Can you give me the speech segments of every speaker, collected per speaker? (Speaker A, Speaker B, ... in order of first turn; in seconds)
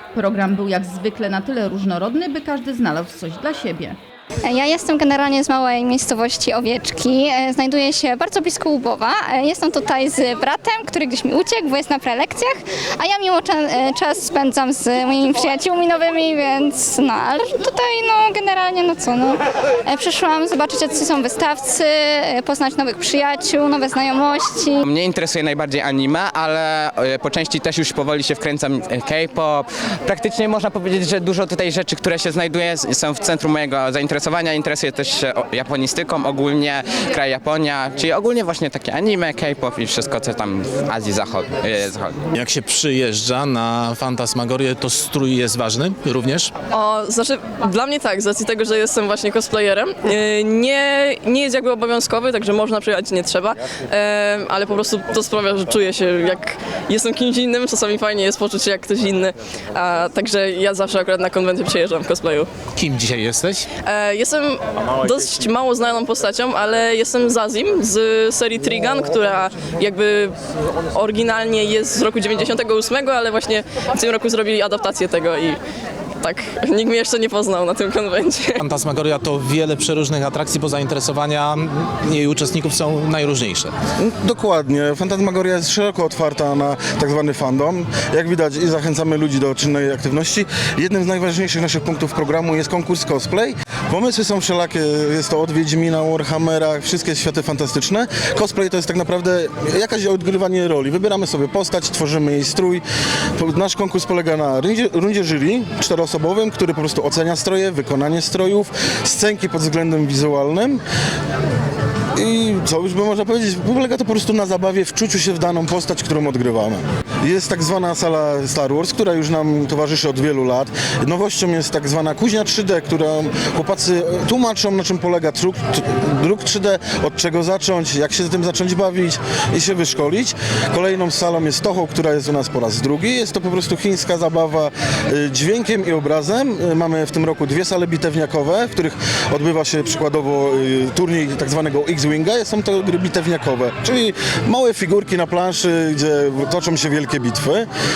Speaker A: 0.1-4.0
Speaker B: 4.4-24.8
Speaker C: 24.9-42.2
Speaker D: 42.3-46.5, 62.8-63.6, 78.6-83.7
Speaker E: 46.7-62.5, 63.8-70.3, 70.9-75.6, 76.2-78.6
Speaker F: 84.0-102.8, 103.4-110.8, 112.2-147.7